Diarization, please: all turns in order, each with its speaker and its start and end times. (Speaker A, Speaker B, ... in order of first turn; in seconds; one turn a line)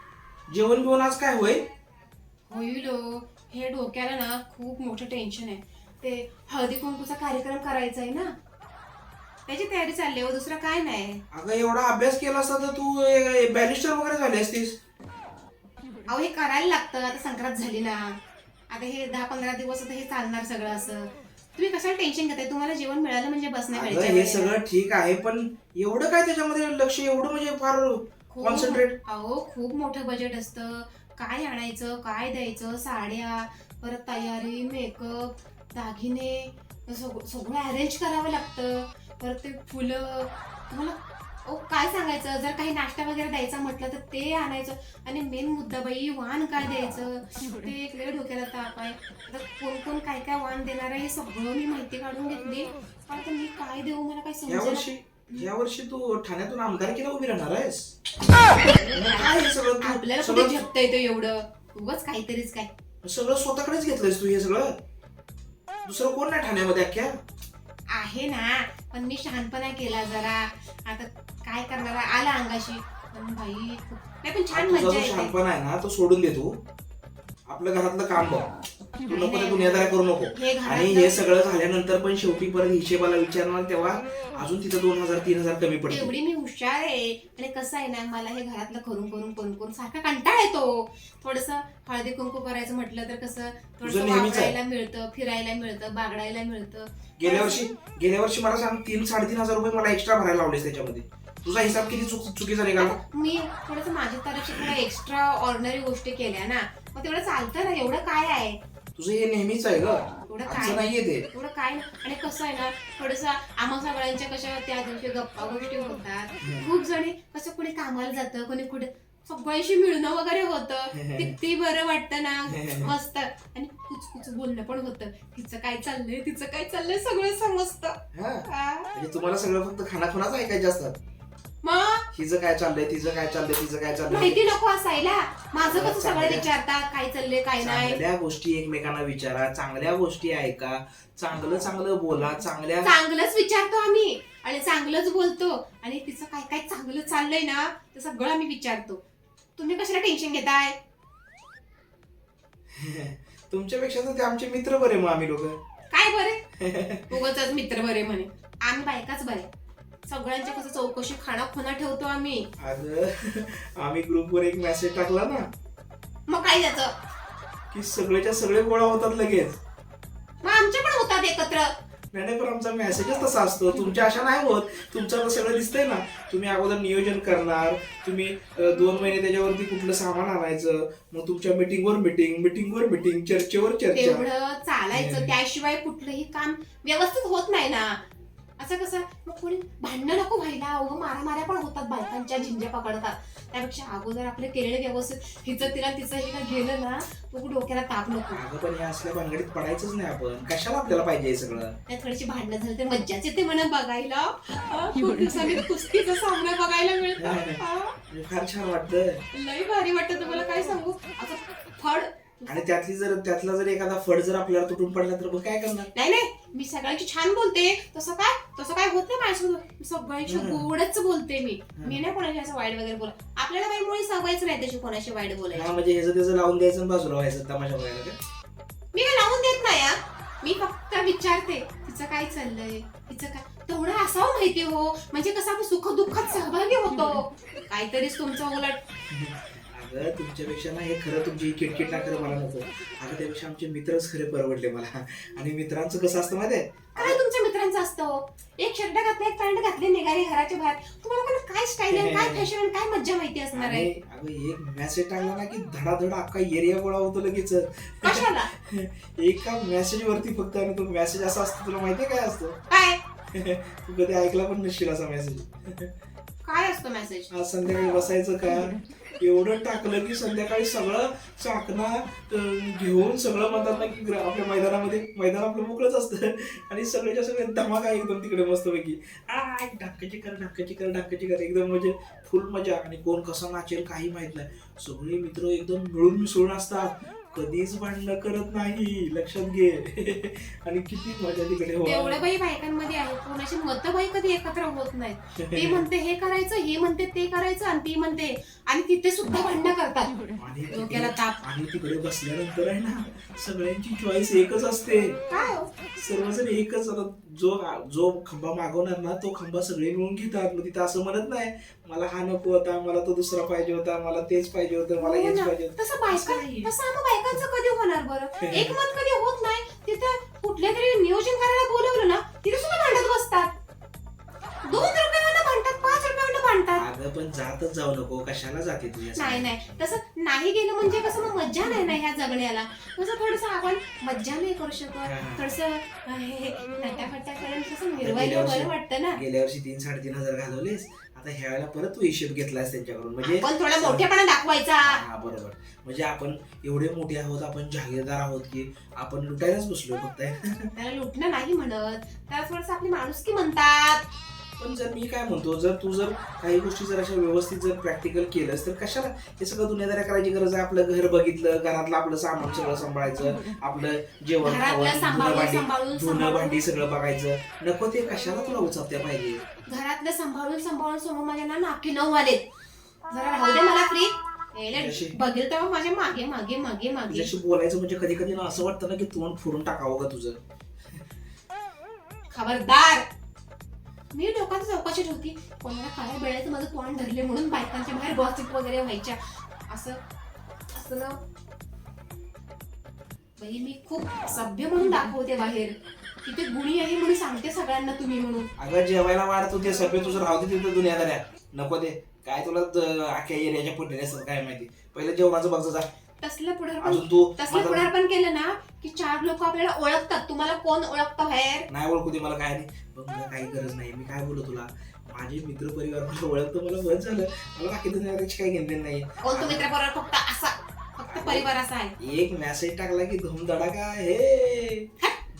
Speaker A: 0.5-1.6
Speaker B: 2.5-8.3
Speaker B: 9.5-11.2
Speaker A: 11.3-14.8
Speaker B: 16.1-18.2
Speaker B: 18.7-24.6
Speaker A: 23.7-29.0
Speaker B: 28.3-55.5
Speaker A: 54.5-58.0
Speaker B: 58.7-62.7
Speaker A: 58.9-60.6
Speaker A: 63.0-64.8
Speaker A: 65.8-67.2
Speaker B: 67.9-75.3
Speaker A: 74.5-76.5
Speaker A: 77.5-78.5
Speaker B: 79.1-81.3
Speaker A: 79.1-86.1
Speaker B: 85.9-97.7
Speaker A: 93.8-94.5
Speaker A: 97.2-103.0
Speaker B: 102.8-108.6
Speaker A: 109.0-111.3
Speaker B: 110.3-128.9
Speaker A: 116.4-116.7
Speaker A: 120.9-121.3
Speaker A: 122.5-122.9
Speaker A: 128.1-131.0
Speaker B: 131.6-132.0
Speaker A: 132.1-134.4
Speaker B: 134.1-138.0
Speaker A: 135.6-136.4
Speaker A: 137.6-142.9
Speaker B: 142.8-149.0
Speaker B: 149.6-150.8
Speaker A: 152.7-155.6
Speaker B: 155.9-156.4
Speaker A: 156.6-157.2
Speaker B: 157.1-159.5
Speaker B: 160.1-162.5
Speaker A: 162.6-165.5
Speaker B: 166.3-166.9
Speaker A: 167.7-169.6
Speaker B: 170.4-171.7
Speaker A: 172.1-184.3
Speaker B: 183.9-188.0
Speaker A: 184.9-185.3
Speaker B: 188.6-198.4
Speaker A: 198.3-201.8
Speaker B: 201.9-207.9
Speaker A: 207.2-209.2
Speaker B: 209.3-212.6
Speaker A: 212.5-215.9
Speaker B: 215.9-225.7
Speaker A: 220.3-220.7
Speaker A: 221.8-222.0
Speaker A: 225.5-228.2
Speaker B: 228.9-238.8
Speaker A: 239.1-247.2
Speaker B: 247.0-253.9
Speaker A: 251.9-252.5
Speaker A: 253.5-262.6
Speaker B: 258.0-258.5
Speaker B: 262.7-263.0
Speaker A: 263.3-265.9
Speaker B: 266.4-267.3
Speaker A: 267.3-292.2
Speaker B: 291.8-300.1
Speaker A: 295.5-295.8
Speaker A: 300.4-305.2
Speaker B: 300.7-301.4
Speaker B: 305.3-305.7
Speaker A: 305.9-316.7
Speaker B: 315.0-323.5
Speaker A: 318.4-318.8
Speaker B: 324.6-326.9
Speaker A: 326.8-329.5
Speaker B: 329.1-339.2
Speaker A: 335.0-335.5
Speaker A: 338.0-344.1
Speaker B: 343.2-345.0
Speaker A: 344.8-350.7
Speaker B: 350.8-354.0
Speaker A: 354.6-369.4
Speaker B: 364.4-366.6
Speaker B: 369.7-372.5
Speaker B: 373.1-377.3
Speaker A: 374.7-375.2
Speaker A: 377.1-380.4
Speaker B: 382.3-383.1
Speaker B: 384.1-390.0
Speaker B: 390.7-391.2
Speaker B: 393.4-398.5
Speaker A: 398.6-405.9
Speaker B: 406.2-411.7
Speaker A: 406.8-407.9
Speaker A: 411.7-419.7
Speaker B: 419.2-422.0
Speaker A: 421.1-424.9